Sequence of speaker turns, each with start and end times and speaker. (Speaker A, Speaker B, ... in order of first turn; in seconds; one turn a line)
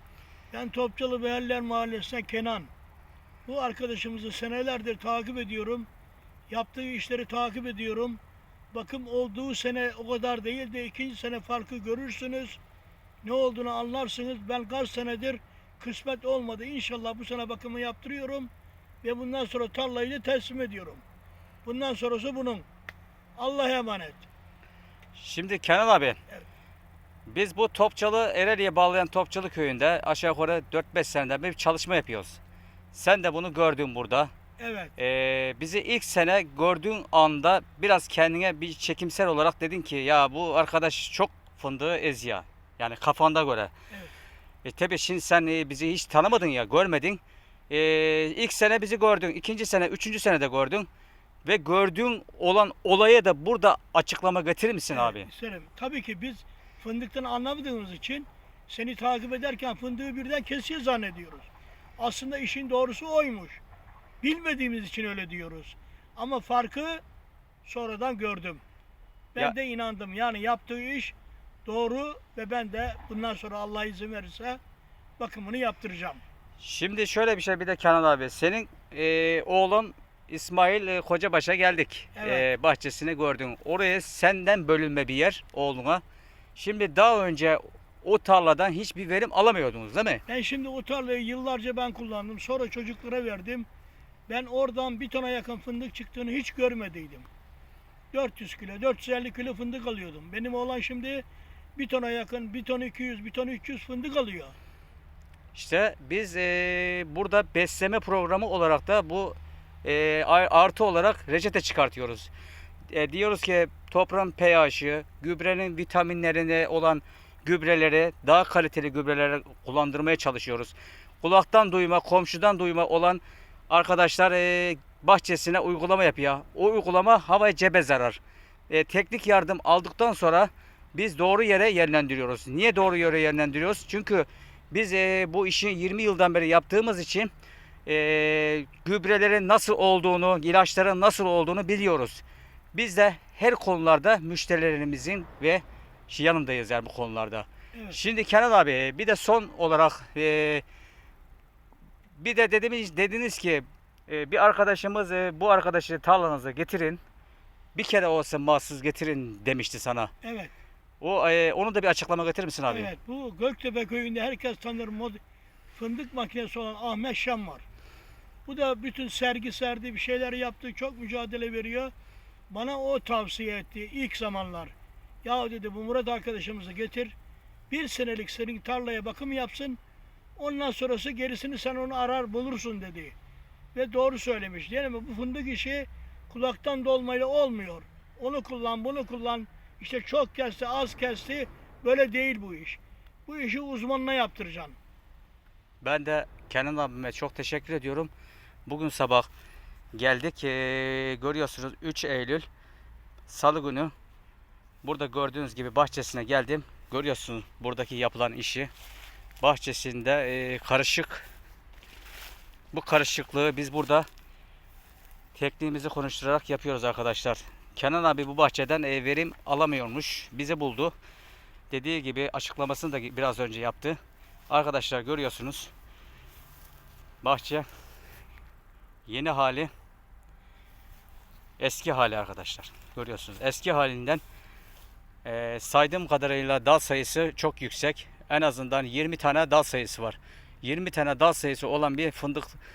Speaker A: 0.5-2.7
Speaker A: 3.5-5.9
Speaker A: 6.5-8.2
Speaker A: 8.7-12.6
Speaker A: 13.2-18.5
Speaker A: 19.0-21.0
Speaker A: 21.6-22.6
Speaker A: 23.4-24.2
Speaker B: 25.1-26.2
Speaker B: 27.3-32.4
Speaker B: 32.9-34.3
Speaker A: 34.6-34.9
Speaker B: 35.0-43.7
Speaker B: 44.6-50.9
Speaker B: 51.4-55.3
Speaker A: 54.9-63.6
Speaker A: 64.2-67.0
Speaker A: 67.6-68.6
Speaker A: 69.3-74.6
Speaker A: 75.2-76.2
Speaker B: 76.6-86.0
Speaker A: 82.2-82.4
Speaker B: 86.5-90.2
Speaker A: 90.3-93.7
Speaker A: 94.3-97.3
Speaker A: 98.1-101.2
Speaker A: 101.8-104.5
Speaker B: 105.5-112.3
Speaker B: 112.9-128.2
Speaker B: 128.7-137.3
Speaker B: 137.8-142.2
Speaker B: 142.7-150.6
Speaker B: 152.1-157.0
Speaker B: 157.7-160.1
Speaker A: 160.2-160.5
Speaker B: 161.0-162.9
Speaker A: 162.7-165.2
Speaker A: 165.7-167.6
Speaker A: 168.4-171.9
Speaker A: 172.5-177.1
Speaker A: 177.7-179.8
Speaker A: 180.3-183.1
Speaker A: 183.7-194.8
Speaker B: 195.8-198.1
Speaker B: 198.7-199.3
Speaker B: 199.9-202.4
Speaker B: 203.3-203.9
Speaker B: 204.8-208.7
Speaker B: 209.4-211.2
Speaker B: 212.7-214.1
Speaker B: 215.3-220.9
Speaker B: 221.7-224.0
Speaker B: 224.5-225.7
Speaker B: 227.2-227.7
Speaker B: 229.1-229.7
Speaker B: 231.6-234.2
Speaker B: 235.2-242.6